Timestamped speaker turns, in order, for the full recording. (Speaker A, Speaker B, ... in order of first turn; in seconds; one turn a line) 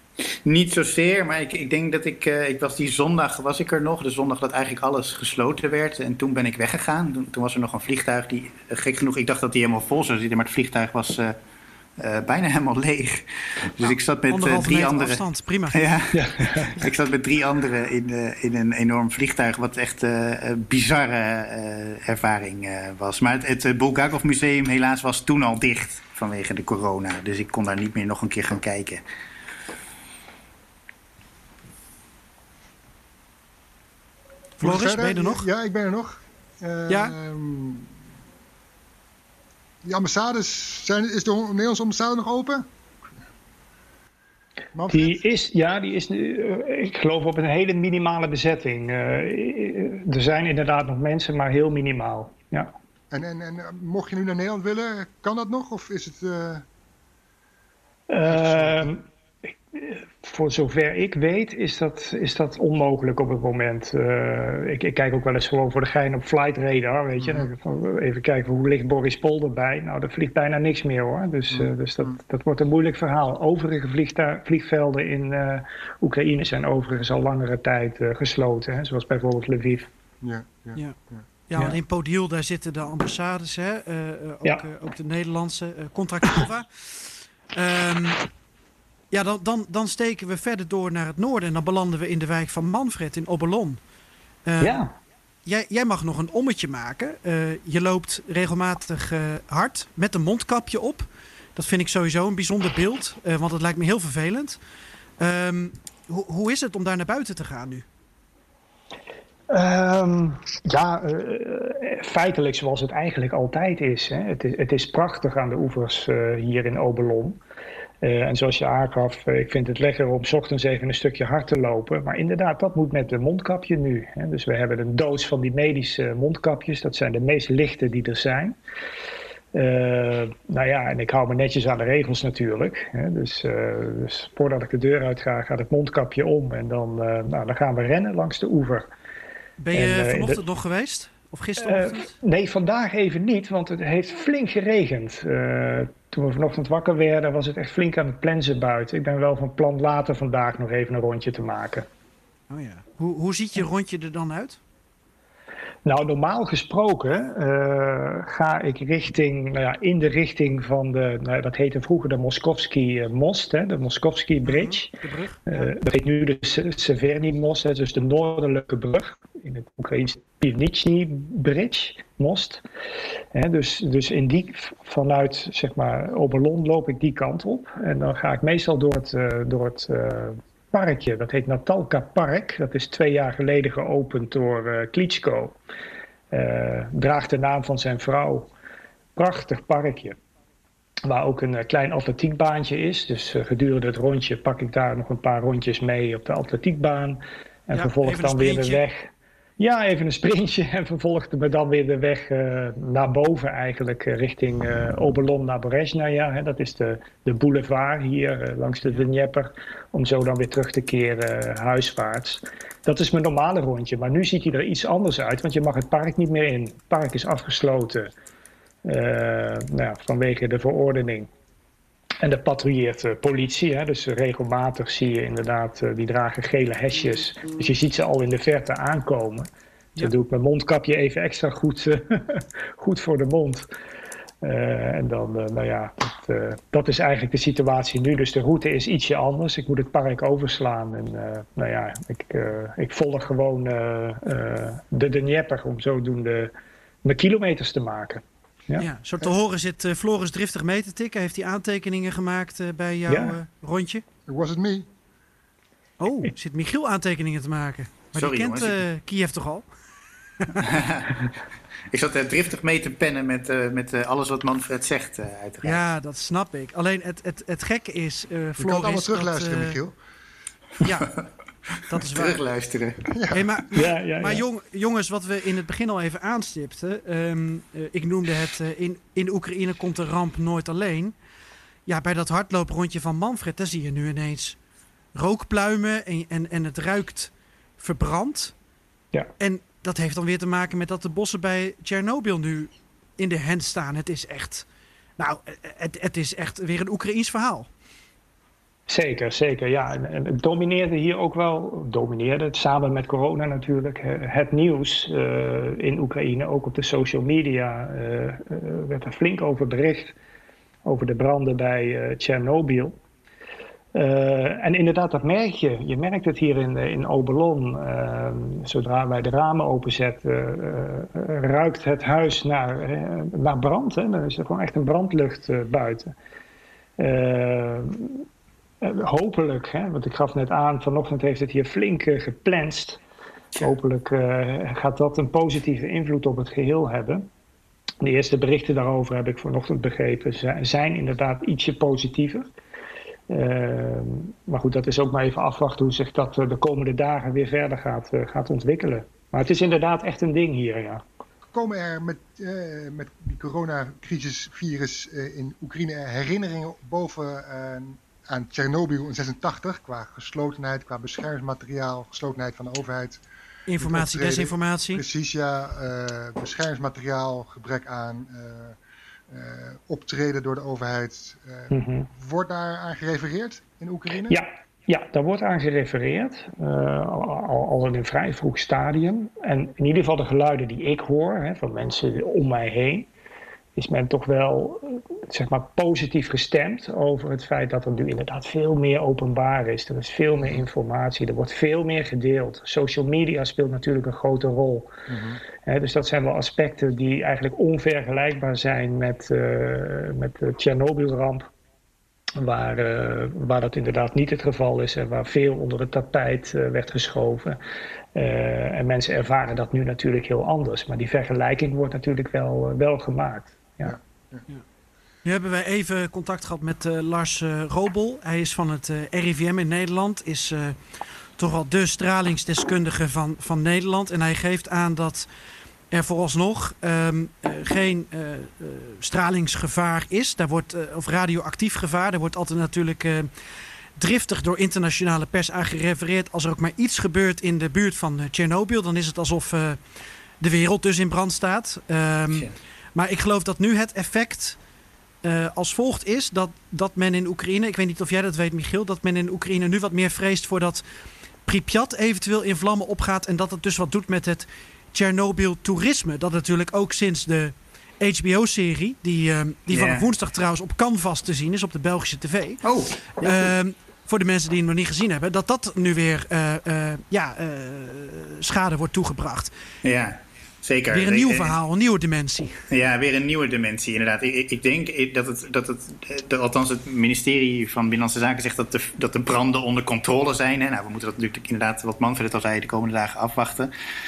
Speaker A: 0.4-11.3
Speaker A: 12.0-29.0
Speaker B: 14.3-15.9
Speaker C: 16.1-16.8
Speaker B: 34.6-35.5
Speaker D: 34.6-37.9
Speaker B: 36.9-37.1
Speaker D: 39.8-42.7
Speaker D: 44.7-45.2
Speaker C: 44.9-52.7
Speaker D: 53.1-56.6
Speaker C: 58.1-59.0
Speaker D: 58.2-58.9
Speaker C: 59.7-79.9
Speaker D: 67.2-67.5
Speaker D: 71.5-72.2
Speaker D: 80.2-81.2
Speaker B: 81.5-88.2
Speaker B: 89.1-93.8
Speaker B: 94.5-94.8
Speaker C: 94.6-94.9
Speaker B: 95.4-104.6
Speaker B: 105.2-107.8
Speaker C: 109.5-117.4
Speaker C: 118.0-128.5
Speaker C: 129.5-138.9
Speaker B: 139.6-142.1
Speaker C: 139.7-140.4
Speaker C: 141.6-151.9
Speaker B: 152.5-154.6
Speaker C: 155.8-164.9
Speaker B: 164.4-165.7
Speaker C: 165.5-172.6
Speaker C: 173.3-185.6
Speaker C: 186.3-188.5
Speaker C: 189.2-190.2
Speaker C: 191.1-218.1
Speaker B: 197.7-198.8
Speaker C: 218.8-221.3
Speaker C: 222.2-233.7
Speaker C: 234.4-246.5
Speaker C: 247.0-248.9
Speaker B: 248.8-254.0
Speaker C: 253.1-253.3
Speaker D: 254.3-254.9
Speaker B: 256.0-259.6
Speaker A: 258.1-258.8
Speaker A: 260.6-261.3
Speaker A: 261.9-265.8
Speaker B: 265.6-269.8
Speaker D: 268.6-269.9
Speaker B: 270.8-271.2
Speaker B: 271.9-272.4
Speaker A: 271.9-273.1
Speaker D: 273.1-273.5
Speaker B: 273.3-281.1
Speaker C: 273.7-274.4
Speaker B: 281.9-284.6
Speaker B: 285.1-288.5
Speaker B: 289.4-294.6
Speaker B: 295.2-297.7
Speaker C: 298.9-310.1
Speaker C: 310.8-312.9
Speaker C: 313.9-326.1
Speaker C: 327.0-328.2
Speaker C: 328.8-333.0
Speaker C: 333.6-337.3
Speaker C: 338.0-342.5
Speaker C: 343.3-351.0
Speaker D: 351.5-363.2
Speaker B: 363.7-365.0
Speaker D: 363.8-368.8
Speaker D: 369.3-374.4
Speaker C: 371.7-372.1
Speaker C: 374.3-383.1
Speaker C: 383.8-394.9
Speaker D: 395.1-395.4
Speaker C: 395.6-401.5
Speaker C: 402.4-407.6
Speaker C: 408.1-413.9
Speaker D: 413.8-414.4
Speaker B: 415.2-425.3
Speaker B: 425.9-433.3
Speaker B: 433.9-439.8
Speaker B: 440.4-444.6
Speaker B: 445.2-450.8
Speaker B: 451.4-462.6
Speaker A: 459.7-460.1
Speaker A: 462.6-463.5
Speaker B: 463.2-469.5
Speaker A: 469.8-471.6
Speaker B: 470.9-472.6
Speaker A: 472.7-483.7